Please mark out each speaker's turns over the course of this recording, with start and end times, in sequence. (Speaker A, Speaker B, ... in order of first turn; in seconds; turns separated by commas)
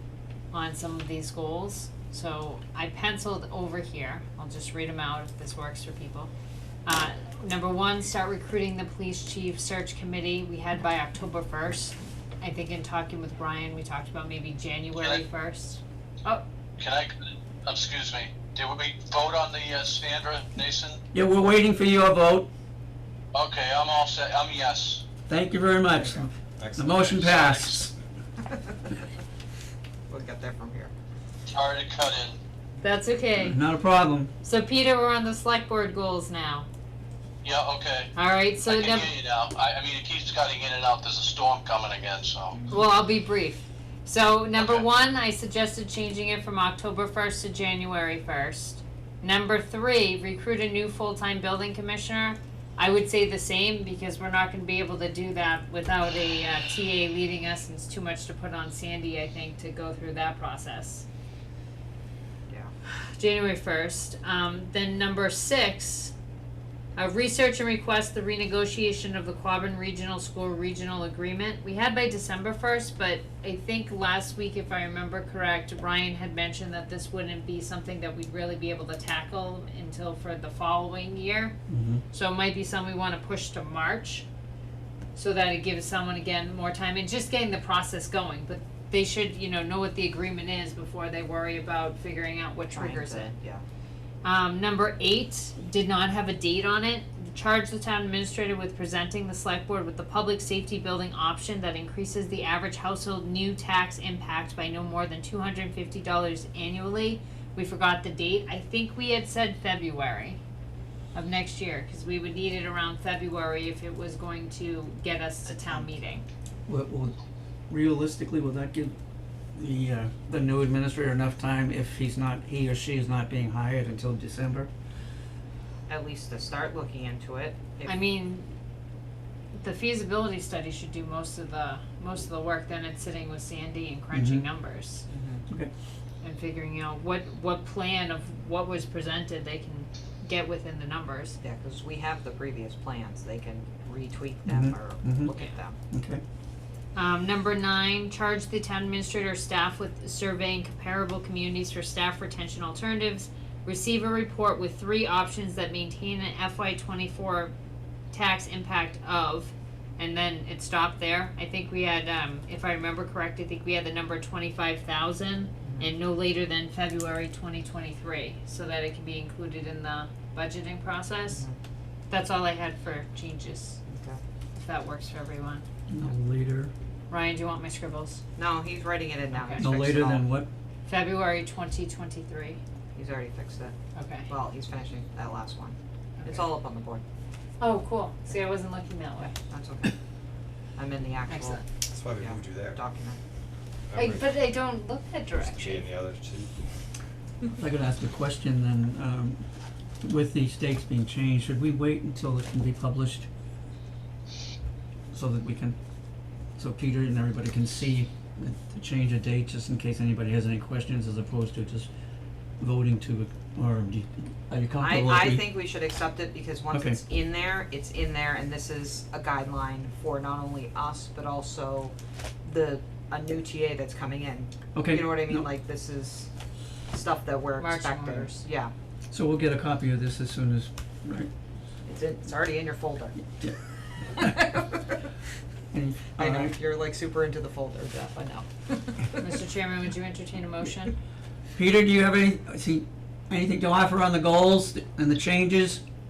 Speaker A: 0.5-6.3, Speaker A: 6.8-16.4, Speaker B: 16.8-21.0, Speaker C: 21.1-22.5, Speaker B: 23.3-25.0, Speaker C: 25.3-27.9, Speaker D: 26.0-26.3, Speaker E: 26.6-27.8, Speaker B: 27.1-27.9, Speaker D: 30.1-30.9, Speaker B: 31.5-32.4, Speaker A: 32.8-33.6, Speaker C: 33.4-34.3, Speaker A: 34.4-36.7, Speaker B: 37.4-42.6, Speaker A: 38.1-39.1, Speaker A: 42.7-61.0, Speaker B: 44.6-44.8, Speaker A: 63.1-66.1, Speaker A: 67.0-81.5, Speaker C: 81.7-82.0, Speaker A: 82.1-84.2, Speaker A: 85.1-93.3, Speaker D: 92.7-93.6, Speaker A: 94.2-110.4, Speaker A: 111.1-116.2, Speaker C: 116.7-117.1, Speaker C: 117.7-119.0, Speaker C: 119.5-124.7, Speaker D: 125.9-128.0, Speaker A: 127.8-128.5, Speaker A: 129.6-135.1, Speaker C: 134.1-134.4, Speaker D: 135.1-135.4, Speaker A: 136.2-141.4, Speaker D: 141.4-145.8, Speaker C: 144.4-145.3, Speaker C: 145.9-146.2, Speaker A: 146.9-157.5, Speaker A: 158.1-171.4, Speaker D: 165.6-165.9, Speaker D: 171.3-171.6, Speaker A: 172.1-173.8, Speaker D: 173.9-174.2, Speaker A: 174.5-175.6, Speaker C: 175.9-176.7, Speaker A: 177.1-178.2, Speaker D: 178.3-180.3, Speaker A: 179.3-179.6, Speaker C: 179.6-180.5, Speaker A: 180.8-182.6, Speaker D: 182.9-183.7, Speaker A: 183.9-184.3, Speaker D: 184.3-187.0, Speaker A: 186.2-186.5, Speaker A: 187.6-189.3, Speaker D: 189.5-189.9, Speaker D: 190.8-191.6, Speaker A: 191.3-191.6, Speaker E: 191.8-192.8, Speaker D: 192.2-193.2, Speaker E: 193.9-194.5, Speaker A: 193.9-195.9, Speaker E: 195.3-196.6, Speaker C: 197.6-199.4, Speaker C: 200.0-203.3, Speaker C: 205.1-205.8, Speaker C: 206.6-211.9, Speaker C: 212.6-215.4, Speaker D: 214.8-226.3, Speaker C: 216.7-217.0, Speaker C: 224.7-225.4, Speaker D: 226.9-228.7, Speaker A: 227.6-228.4, Speaker C: 229.1-231.3, Speaker D: 231.8-233.2, Speaker C: 233.3-233.6, Speaker C: 234.1-234.5, Speaker D: 234.2-235.0, Speaker C: 235.7-236.6, Speaker D: 236.2-239.3, Speaker A: 239.2-240.9, Speaker C: 241.5-245.8